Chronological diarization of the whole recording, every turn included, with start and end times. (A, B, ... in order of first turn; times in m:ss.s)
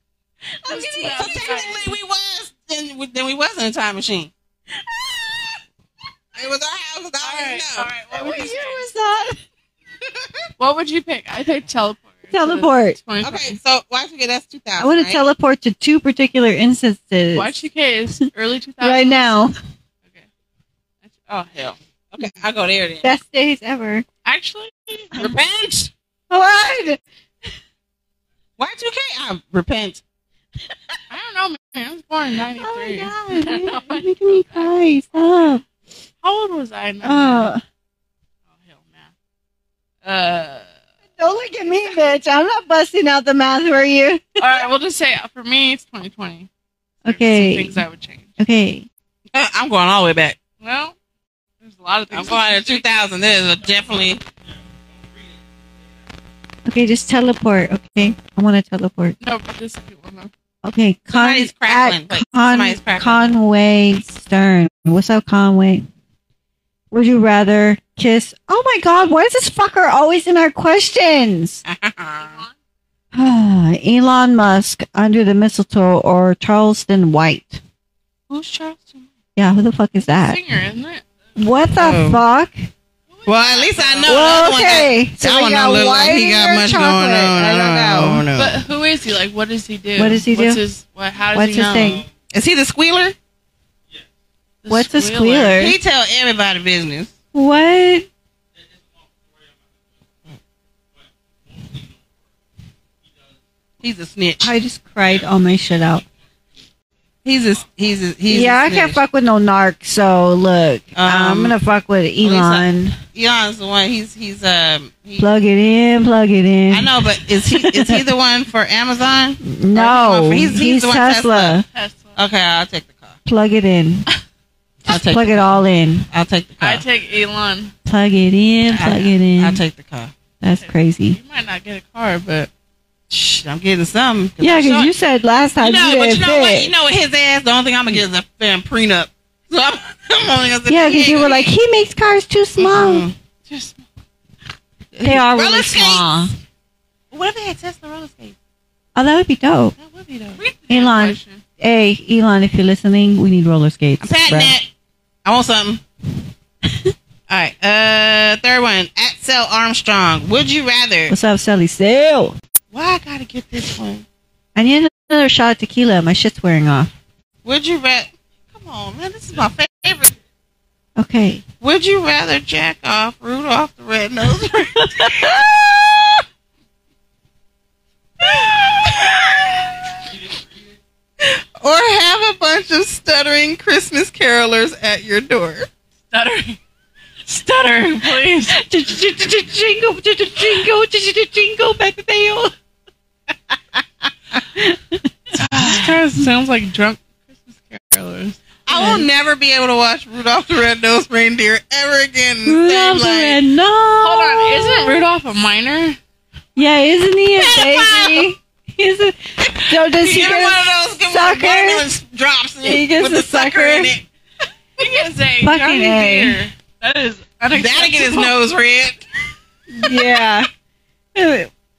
0:00.6-0:01.7 A
0:00.6-0:02.0 B
0:01.1-0:04.3 C
0:04.7-0:05.6 A
0:06.4-0:07.9 C
0:07.2-0:08.9 B
0:08.1-0:09.4 A
0:10.6-0:13.6 B
0:12.3-0:13.0 A
0:13.2-0:15.2 C
0:14.8-0:17.6 A
0:17.3-0:19.4 B
0:18.8-0:19.6 A
0:21.0-0:21.8 B
0:22.1-0:23.1 C
0:23.0-0:24.0 A
0:24.2-0:25.2 B
0:25.2-0:25.9 C
0:26.3-0:27.0 A
0:28.6-0:30.0 C
0:31.1-0:34.7 B
0:32.6-0:35.6 A
0:36.2-0:37.5 B
0:37.0-0:37.6 A
0:38.5-0:39.1 B
0:40.0-0:40.7 B
0:41.2-0:44.6 A
0:44.4-0:46.5 B
0:47.0-0:48.4 B
0:47.0-0:47.8 A
0:48.4-0:48.9 A
0:49.3-0:50.4 C
0:50.6-0:51.0 B
0:51.6-0:52.9 B
0:52.1-0:54.2 C
0:56.6-0:59.2 A
0:59.2-1:00.3 B
1:00.6-1:05.9 A
1:01.1-1:03.3 C
1:06.9-1:11.6 A
1:11.6-1:12.4 C
1:12.2-1:12.5 B
1:13.1-1:17.6 A
1:18.3-1:19.1 C
1:19.4-1:20.4 A
1:20.2-1:21.0 B
1:21.4-1:22.5 A
1:21.8-1:22.2 C
1:23.1-1:24.5 B
1:23.2-1:28.6 C
1:24.0-1:28.2 A
1:28.4-1:32.0 B
1:30.0-1:30.6 A
1:31.3-1:32.0 A
1:32.3-1:33.2 C
1:34.6-1:35.6 B
1:34.7-1:35.8 A
1:35.6-1:37.1 C
1:37.3-1:38.1 A
1:43.8-1:44.5 C
1:44.4-1:46.0 A
1:47.2-1:49.0 C
1:48.3-1:53.0 A
1:50.9-1:51.6 C
1:52.2-1:55.3 C
1:55.2-1:58.0 A
1:56.7-2:01.6 C
1:59.4-2:01.6 A
2:01.7-2:02.2 B
2:02.2-2:03.2 C
2:03.2-2:04.0 A
2:04.8-2:06.1 A
2:04.9-2:06.8 C
2:06.6-2:07.7 B
2:07.8-2:09.6 A
2:08.7-2:10.1 C
2:10.4-2:11.2 A
2:10.6-2:12.5 B
2:13.1-2:14.9 C
2:14.4-2:16.7 A
2:15.6-2:21.5 C
2:20.7-2:23.1 A
2:22.6-2:23.1 C
2:23.4-2:23.8 B
2:24.9-2:26.2 C
2:25.0-2:26.3 A
2:27.1-2:28.4 C
2:28.9-2:29.7 A
2:29.8-2:30.4 C
2:30.4-2:31.4 B
2:30.7-2:34.6 A
2:34.0-2:34.7 C
2:35.2-2:35.8 C
2:36.6-2:36.9 A
2:37.3-2:41.1 C
2:41.1-2:42.4 A
2:42.7-2:44.0 C
2:44.6-2:46.9 A
2:47.4-2:50.1 C
2:51.0-2:51.4 A
2:51.6-2:56.0 C
2:54.8-2:55.5 A
3:01.2-3:05.7 C
3:06.1-3:06.6 B
3:07.2-3:08.6 B
3:08.5-3:12.5 A
3:14.3-3:15.9 A
3:15.4-3:18.4 B
3:18.6-3:23.4 C
3:18.7-3:19.1 A
3:22.4-3:25.0 A
3:24.0-3:26.0 B
3:26.6-3:31.8 A
3:27.4-3:28.3 C
3:29.4-3:34.0 C
3:32.6-3:33.9 A
3:34.8-3:38.3 B
3:35.4-3:36.4 A
3:37.5-3:39.0 C
3:39.7-3:40.5 A
3:41.1-3:41.5 A